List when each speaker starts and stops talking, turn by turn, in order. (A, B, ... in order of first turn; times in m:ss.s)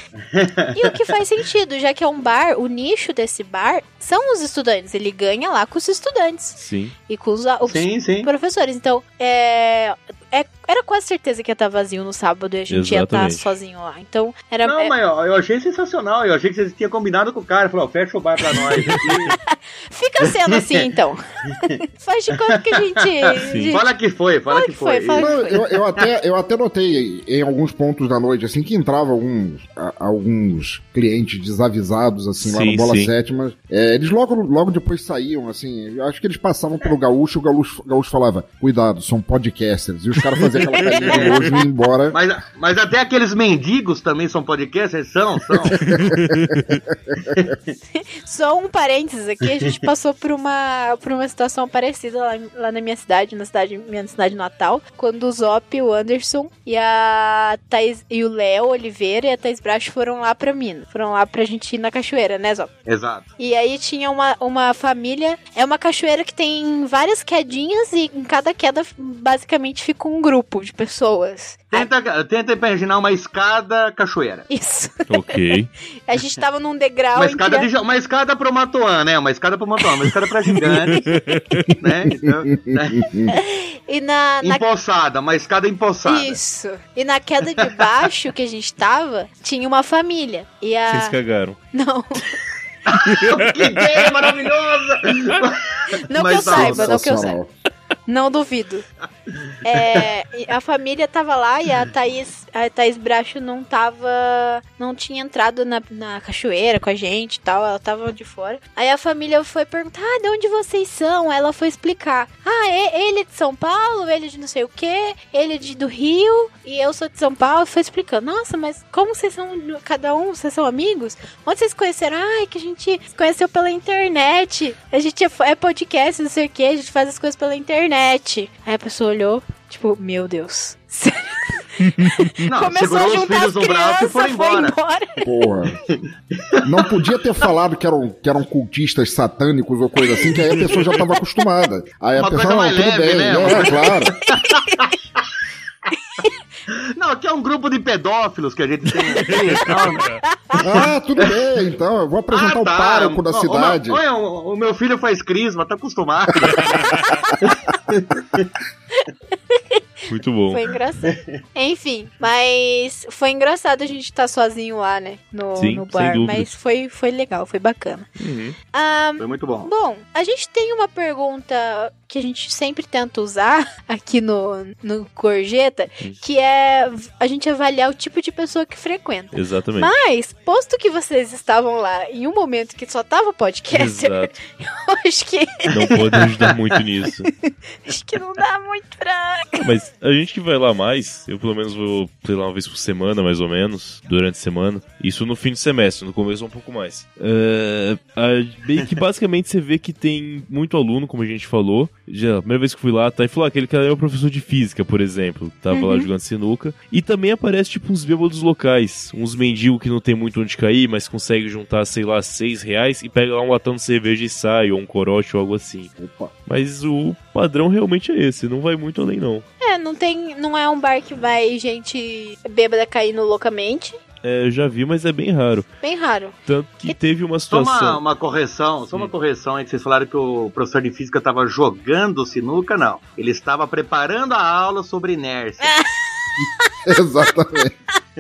0:00.2-0:00.9 A
0:00.7-0:14.9 B
0:06.6-0:06.9 C
0:07.6-0:08.3 A
0:12.7-0:13.6 C
0:14.6-0:19.4 A
0:19.0-0:23.9 B
0:20.5-0:20.9 A
0:23.5-0:23.8 C
0:23.7-0:25.3 A
0:24.5-0:25.6 B
0:25.2-0:42.2 D
0:32.4-0:33.1 C
0:40.8-0:41.5 B
0:40.8-0:41.4 A
0:42.1-0:45.8 A
0:45.6-0:47.2 D
0:45.8-0:46.8 C
0:47.3-0:47.6 A
0:47.9-1:02.7 B
1:02.9-1:03.3 A
1:03.4-1:11.9 B
1:11.7-1:14.5 A
1:14.5-1:15.5 B
1:15.1-1:15.7 C
1:16.1-1:17.7 B
1:17.2-1:21.1 A
1:21.0-1:21.8 C
1:21.8-1:23.1 A
1:22.3-1:23.3 D
1:23.3-1:24.6 B
1:24.4-1:26.4 A
1:26.0-1:31.2 B
1:30.9-1:31.6 C
1:31.7-1:32.3 B
1:32.9-1:37.0 A
1:33.0-1:34.0 C
1:36.1-1:37.4 B
1:36.5-1:37.5 D
1:38.1-1:38.8 B
1:39.6-2:15.2 B
1:39.7-1:40.0 A
2:12.5-2:14.8 A
2:15.2-2:15.8 D
2:16.4-2:16.7 A
2:16.6-2:24.2 D
2:22.2-2:25.2 A
2:26.7-2:30.1 A
2:30.3-2:30.6 B
2:30.6-2:34.0 D
2:30.7-2:31.3 A
2:32.3-2:38.5 A
2:39.5-2:39.8 B
2:40.1-2:40.6 C
2:40.5-2:48.1 B
2:41.1-2:41.3 A
2:45.6-2:46.5 C
2:48.2-2:48.6 C
2:48.7-3:06.0 B
2:49.2-2:49.7 A
2:59.3-2:59.9 C
3:03.7-3:04.4 C
3:05.7-3:07.3 C
3:07.4-3:09.6 B
3:09.6-3:35.9 C
3:25.7-3:26.1 B
3:36.0-3:36.3 D
3:36.5-3:39.4 C
3:39.6-3:44.0 B
3:44.2-3:45.7 C
3:45.8-3:46.4 B
3:46.5-3:48.0 C
3:47.5-3:55.7 A
3:55.6-3:55.9 B
3:56.9-3:57.7 D